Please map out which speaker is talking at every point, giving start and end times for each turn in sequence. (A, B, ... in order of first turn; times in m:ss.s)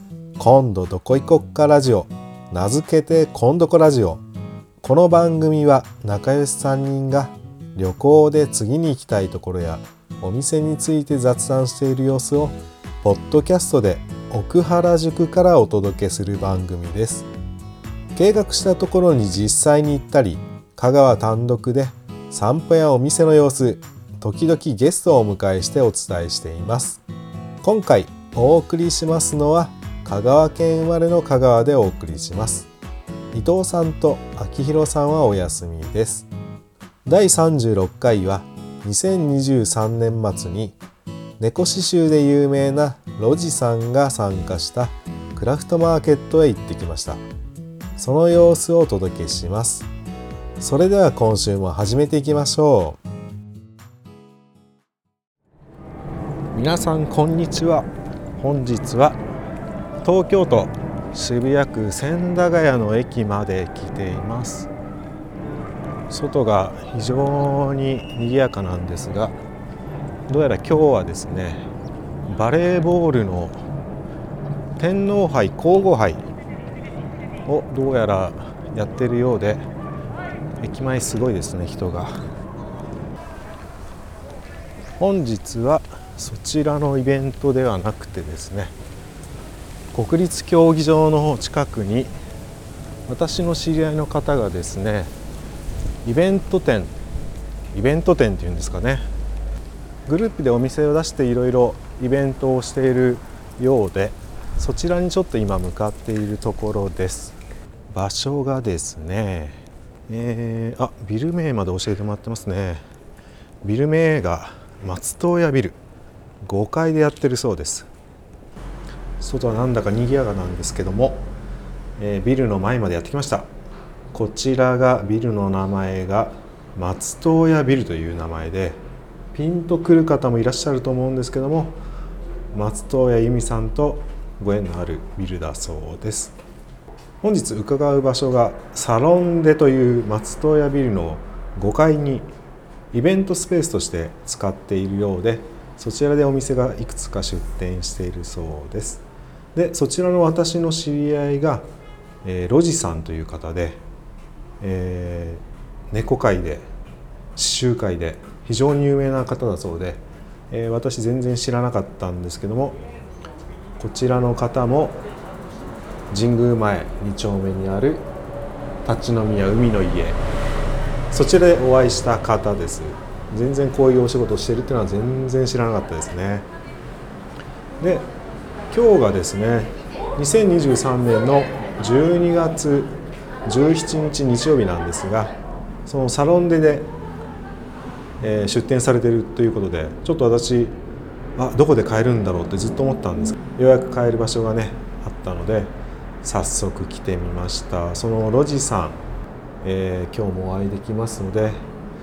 0:00.4-0:04.2 A
0:04.8-0:17.3 A
0:18.2-0:27.0 A
0:27.6-0:32.7 A
0:33.3-0:36.3 A
0:37.1-0:40.8 A
0:41.4-0:47.2 A
0:48.0-0:49.9 A
0:50.6-0:53.0 A
0:56.5-0:57.9 A
0:58.4-0:59.2 A
1:00.0-1:04.7 A
1:06.1-1:09.4 A
1:10.3-1:11.7 A
1:12.3-1:13.6 A
1:14.8-1:16.2 A
1:17.5-1:19.6 A
1:20.6-1:22.2 A
1:25.0-1:28.7 A
1:29.9-1:32.1 A
1:33.1-1:35.1 A
1:36.0-1:36.9 A
1:37.7-1:39.0 A
1:40.1-1:47.4 A
1:47.9-1:52.8 A
1:53.6-1:55.8 A
1:56.4-1:57.9 A
1:59.2-2:01.3 A
2:02.0-2:03.5 A
2:04.1-2:08.8 A
2:09.3-2:11.8 A
2:12.5-2:16.3 A
2:17.2-2:22.3 A
2:22.9-2:29.0 A
2:29.6-2:31.6 A
2:32.2-2:33.8 A
2:34.6-2:36.7 A
2:37.4-2:42.8 A
2:43.8-2:45.0 A
2:46.1-2:48.1 A
2:48.8-2:50.2 A
2:51.1-2:56.5 A
2:57.8-2:58.1 A
2:58.7-3:05.3 A
3:05.9-3:06.9 A
3:08.2-3:10.8 A
3:11.4-3:19.0 A
3:19.6-3:21.6 A